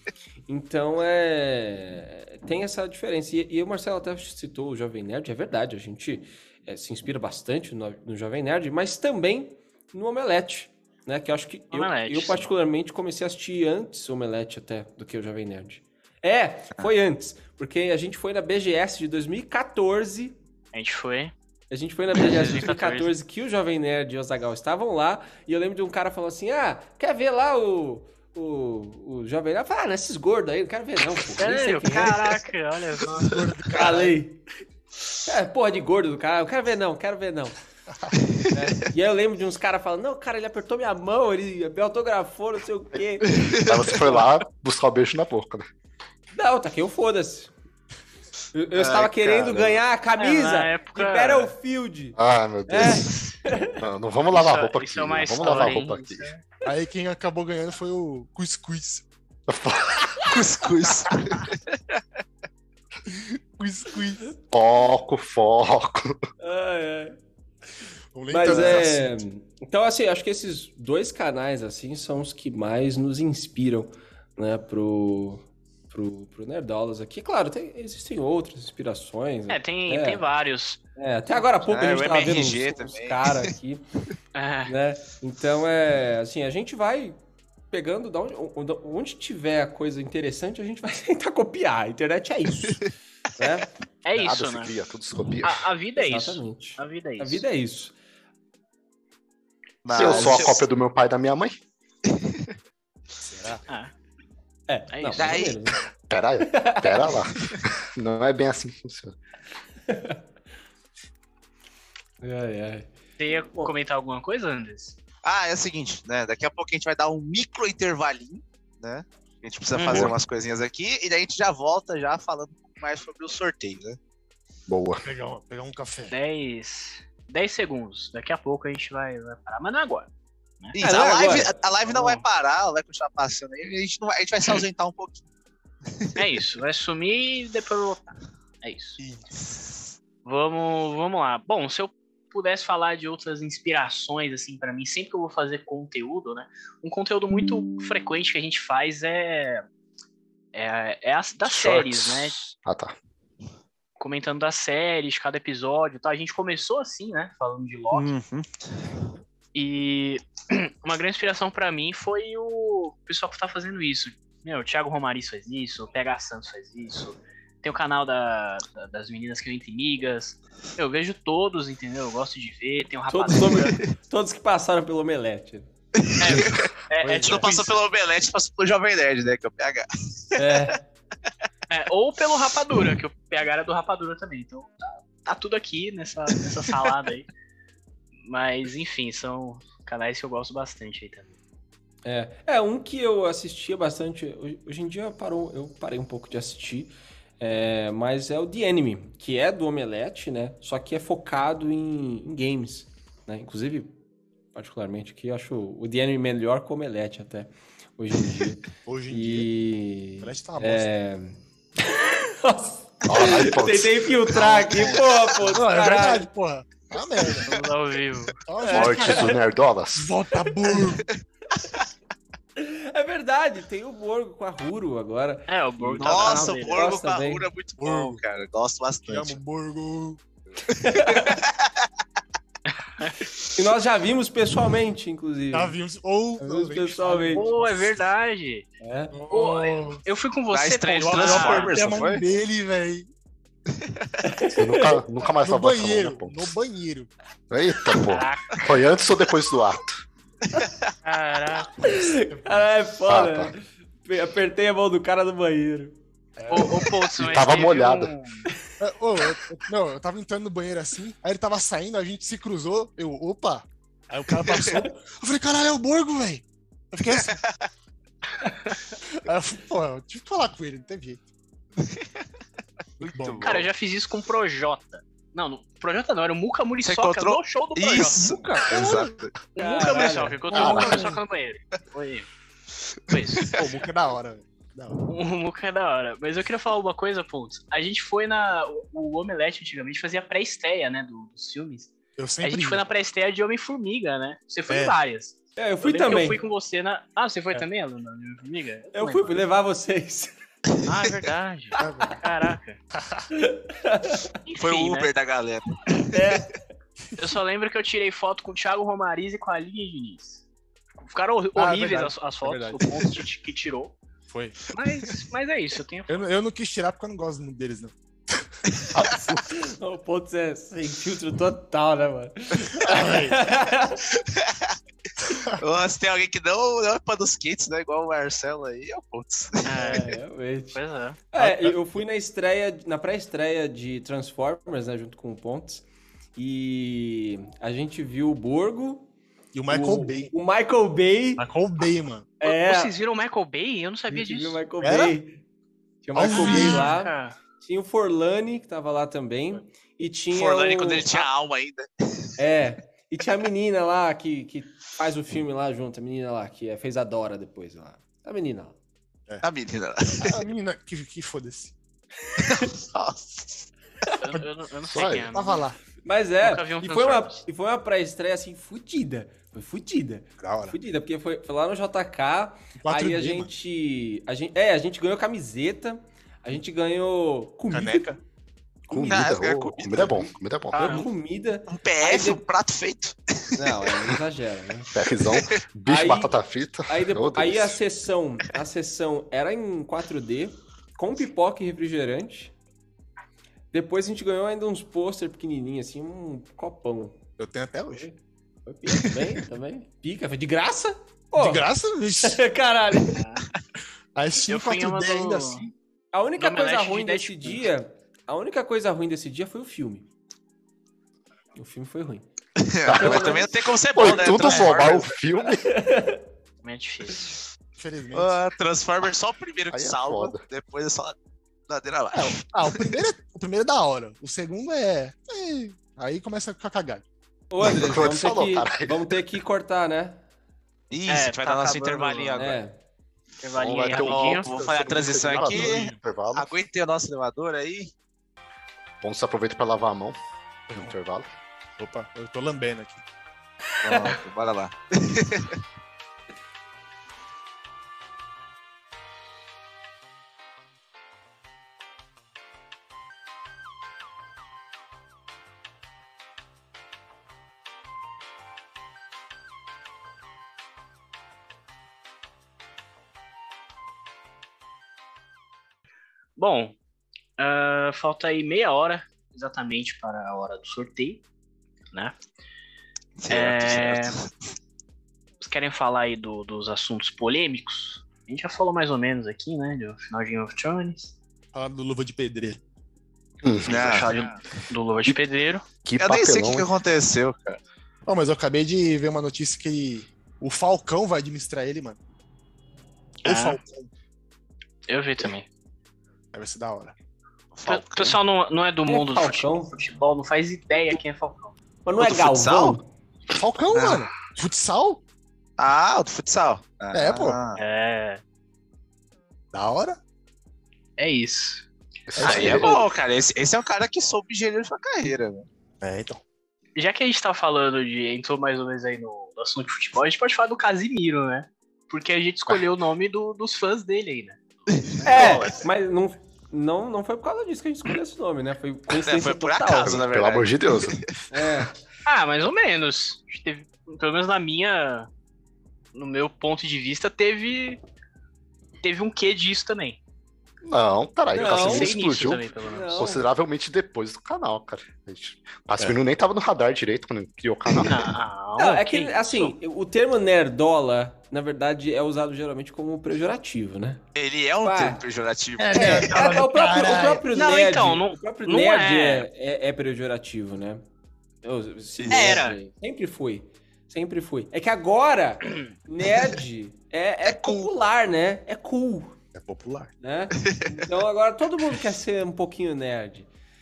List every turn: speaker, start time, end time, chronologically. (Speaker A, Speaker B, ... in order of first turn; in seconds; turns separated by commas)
Speaker A: 0.5-20.4, Speaker B: 11.7-12.5, Speaker B: 20.7-21.3, Speaker A: 21.7-32.4, Speaker B: 22.2-23.1, Speaker B: 31.4-33.4, Speaker C: 33.2-34.1, Speaker A: 33.7-34.4, Speaker A: 35.2-37.6, Speaker A: 38.5-43.3, Speaker D: 43.3-44.2, Speaker E: 43.5-45.6, Speaker A: 46.3-47.5, Speaker A: 48.5-53.8, Speaker D: 48.8-49.1, Speaker E: 48.8-49.8, Speaker B: 50.2-51.5, Speaker E: 52.1-53.1, Speaker B: 52.9-53.1, Speaker E: 53.8-56.3, Speaker B: 54.3-56.4, Speaker C: 56.6-59.1, Speaker E: 59.5-60.7, Speaker D: 60.2-62.0, Speaker C: 63.1-64.3, Speaker E: 64.5-66.2, Speaker A: 66.4-67.2, Speaker C: 68.1-69.2, Speaker A: 68.3-80.2, Speaker E: 68.5-68.7, Speaker B: 79.5-80.8, Speaker A: 81.0-83.8, Speaker D: 81.7-83.5, Speaker B: 84.3-84.7, Speaker A: 84.7-87.2, Speaker A: 87.7-92.8, Speaker A: 93.4-93.7, Speaker B: 94.0-94.7, Speaker E: 94.1-95.7, Speaker B: 95.4-97.4, Speaker A: 96.0-97.9, Speaker D: 99.8-100.6, Speaker E: 99.9-101.6, Speaker A: 100.0-100.3, Speaker B: 100.0-100.3, Speaker D: 102.2-102.4, Speaker C: 103.2-103.6, Speaker A: 104.7-105.8, Speaker B: 104.9-105.4, Speaker D: 105.2-105.6, Speaker E: 106.1-109.1, Speaker A: 106.5-107.2, Speaker A: 109.9-110.2, Speaker A: 112.2-112.9, Speaker B: 113.2-115.0, Speaker D: 115.2-124.0, Speaker B: 119.7-120.1, Speaker E: 119.9-120.2, Speaker E: 124.7-125.0, Speaker C: 125.0-126.2, Speaker B: 126.1-130.1, Speaker B: 130.6-131.3, Speaker D: 130.7-135.2, Speaker A: 130.8-131.5, Speaker B: 131.8-132.2, Speaker D: 135.9-136.4, Speaker B: 136.2-139.0, Speaker D: 139.0-139.9, Speaker B: 140.2-149.7, Speaker B: 150.5-152.5, Speaker E: 151.5-152.9, Speaker B: 154.0-158.1, Speaker D: 157.9-158.9, Speaker B: 159.6-173.8, Speaker A: 173.1-175.7, Speaker D: 176.0-180.6, Speaker B: 176.2-177.8, Speaker C: 177.0-177.4, Speaker A: 180.4-180.8, Speaker B: 181.7-187.3, Speaker B: 188.2-191.3, Speaker A: 192.1-203.9, Speaker A: 204.5-216.3, Speaker C: 208.8-209.5, Speaker C: 210.2-210.9, Speaker E: 213.1-214.4, Speaker C: 214.3-217.6, Speaker B: 217.4-218.4, Speaker C: 218.4-219.4, Speaker A: 218.6-219.4, Speaker E: 218.7-220.1, Speaker C: 219.9-221.1, Speaker A: 222.6-227.4, Speaker B: 225.5-226.9, Speaker D: 226.0-229.4, Speaker C: 227.8-228.2, Speaker C: 229.1-230.2, Speaker A: 230.7-231.4, Speaker D: 230.9-231.7, Speaker B: 232.7-233.1, Speaker A: 233.6-235.8, Speaker C: 235.5-237.9, Speaker A: 236.4-237.5, Speaker B: 237.3-238.7, Speaker A: 238.8-239.1, Speaker C: 239.1-240.0, Speaker B: 239.3-241.8, Speaker D: 240.5-242.2, Speaker C: 241.0-243.1, Speaker A: 244.2-245.0, Speaker E: 244.6-246.5, Speaker C: 245.3-247.1, Speaker E: 247.5-250.0, Speaker B: 248.0-248.6, Speaker D: 250.6-250.9, Speaker B: 251.0-251.7, Speaker A: 251.8-255.9, Speaker C: 251.8-252.7, Speaker E: 253.1-253.5, Speaker C: 256.4-256.9, Speaker B: 256.5-258.5, Speaker E: 257.2-258.1, Speaker C: 258.8-267.4, Speaker D: 264.4-264.8, Speaker D: 267.2-267.6, Speaker C: 269.2-271.2, Speaker D: 271.8-272.1, Speaker C: 273.0-273.6, Speaker D: 273.0-273.7, Speaker B: 273.4-278.4, Speaker D: 276.8-279.3, Speaker C: 278.6-279.1, Speaker B: 279.6-282.3, Speaker A: 279.6-281.1, Speaker C: 280.5-281.2, Speaker E: 280.6-281.0, Speaker B: 283.1-283.6, Speaker D: 283.1-283.7, Speaker C: 283.5-285.1, Speaker B: 285.1-299.4, Speaker C: 292.2-292.8, Speaker C: 294.7-295.0, Speaker A: 295.6-296.4, Speaker A: 298.9-300.3, Speaker B: 300.8-302.8, Speaker C: 301.8-302.2, Speaker C: 302.9-303.3, Speaker A: 303.3-304.3, Speaker B: 304.4-305.1, Speaker D: 304.6-306.4, Speaker A: 306.1-306.5, Speaker B: 307.2-310.4, Speaker B: 311.0-313.9, Speaker C: 311.6-313.1, Speaker C: 314.3-314.6, Speaker B: 314.7-316.2, Speaker C: 316.1-319.5, Speaker A: 319.0-324.0, Speaker C: 322.8-323.5, Speaker D: 324.3-324.7, Speaker C: 325.3-325.6, Speaker D: 325.6-330.0, Speaker B: 329.6-330.2, Speaker A: 329.8-330.8, Speaker B: 330.7-331.2, Speaker A: 331.3-335.8, Speaker C: 331.4-331.9, Speaker A: 336.4-339.1, Speaker C: 339.5-340.3, Speaker A: 339.7-341.4, Speaker C: 341.4-342.4, Speaker A: 342.4-342.9, Speaker B: 342.4-344.6, Speaker A: 344.1-345.4, Speaker C: 344.8-345.2, Speaker A: 346.0-351.3, Speaker C: 346.1-346.9, Speaker B: 346.3-347.4, Speaker D: 350.3-352.4, Speaker A: 352.4-358.8, Speaker D: 359.4-360.4, Speaker C: 360.2-361.7, Speaker A: 362.4-362.7, Speaker D: 362.4-363.7, Speaker B: 364.2-365.7, Speaker E: 364.9-365.3, Speaker C: 365.3-365.8, Speaker A: 366.0-378.1, Speaker B: 366.4-367.4, Speaker C: 370.4-370.8, Speaker C: 372.8-373.5, Speaker C: 377.7-378.2, Speaker E: 378.9-381.0, Speaker D: 378.9-380.3, Speaker B: 380.7-381.1, Speaker A: 380.7-382.4, Speaker D: 381.7-383.6, Speaker A: 383.6-384.9, Speaker E: 384.9-387.8, Speaker D: 385.3-385.5, Speaker A: 385.9-386.4, Speaker A: 386.9-392.5, Speaker A: 393.7-397.2, Speaker C: 397.4-398.1, Speaker A: 398.7-401.7, Speaker C: 401.4-402.4, Speaker A: 402.2-403.2, Speaker B: 403.1-403.4, Speaker C: 404.1-405.7, Speaker B: 404.5-405.6, Speaker A: 406.1-410.1, Speaker B: 406.4-407.7, Speaker A: 411.6-412.2, Speaker D: 412.6-415.2, Speaker E: 412.8-415.6, Speaker A: 412.9-413.5, Speaker A: 414.1-414.4, Speaker A: 415.6-416.2, Speaker B: 416.6-417.4, Speaker C: 417.8-418.4, Speaker D: 418.1-421.2, Speaker E: 419.7-420.4, Speaker D: 421.7-423.0, Speaker C: 422.1-427.0, Speaker A: 427.5-430.2, Speaker E: 427.7-429.2, Speaker D: 430.9-432.6, Speaker B: 431.1-432.5, Speaker A: 432.4-432.8, Speaker B: 433.4-435.4, Speaker E: 433.6-436.5, Speaker D: 433.9-437.9, Speaker C: 435.4-435.9, Speaker E: 439.0-440.2, Speaker E: 440.7-441.3, Speaker C: 441.8-443.0, Speaker D: 443.8-445.6, Speaker B: 466.4-466.8, Speaker B: 467.4-471.2, Speaker D: 473.2-474.3, Speaker B: 473.3-474.2, Speaker B: 475.4-481.1, Speaker C: 481.5-482.6, Speaker E: 483.4-484.1, Speaker B: 483.7-485.6, Speaker D: 483.7-484.3, Speaker E: 485.8-486.7, Speaker D: 486.0-487.6, Speaker C: 488.1-492.0, Speaker B: 493.2-493.6, Speaker C: 493.2-493.9, Speaker B: 494.9-495.4, Speaker C: 496.3-496.9, Speaker D: 497.5-498.2, Speaker B: 497.7-501.6, Speaker A: 498.9-499.7, Speaker A: 501.8-502.8, Speaker D: 502.0-502.8, Speaker C: 503.3-505.0, Speaker D: 505.6-507.6, Speaker C: 506.9-507.4, Speaker B: 507.6-508.2, Speaker C: 509.5-510.0, Speaker B: 511.0-511.7, Speaker E: 512.1-512.8, Speaker C: 512.2-512.7, Speaker D: 512.2-515.5, Speaker B: 512.2-512.9, Speaker C: 515.8-516.2, Speaker B: 516.8-525.4, Speaker D: 524.8-525.4, Speaker A: 525.0-530.0, Speaker E: 525.1-525.5, Speaker D: 528.9-531.0, Speaker E: 529.8-531.0, Speaker A: 531.3-531.7, Speaker B: 532.0-535.1, Speaker B: 535.9-537.8, Speaker B: 538.8-540.0, Speaker E: 540.6-548.1, Speaker A: 541.3-542.0, Speaker B: 541.3-543.1, Speaker A: 542.6-543.3, Speaker B: 547.8-549.5, Speaker A: 548.6-554.0, Speaker D: 554.1-556.2, Speaker A: 554.6-555.0, Speaker C: 555.6-557.3, Speaker A: 555.7-560.8, Speaker B: 557.3-559.3, Speaker A: 561.4-569.2, Speaker D: 562.0-562.4, Speaker B: 562.1-562.6, Speaker D: 567.2-567.7, Speaker C: 569.3-569.9, Speaker A: 570.0-573.3, Speaker D: 570.4-570.7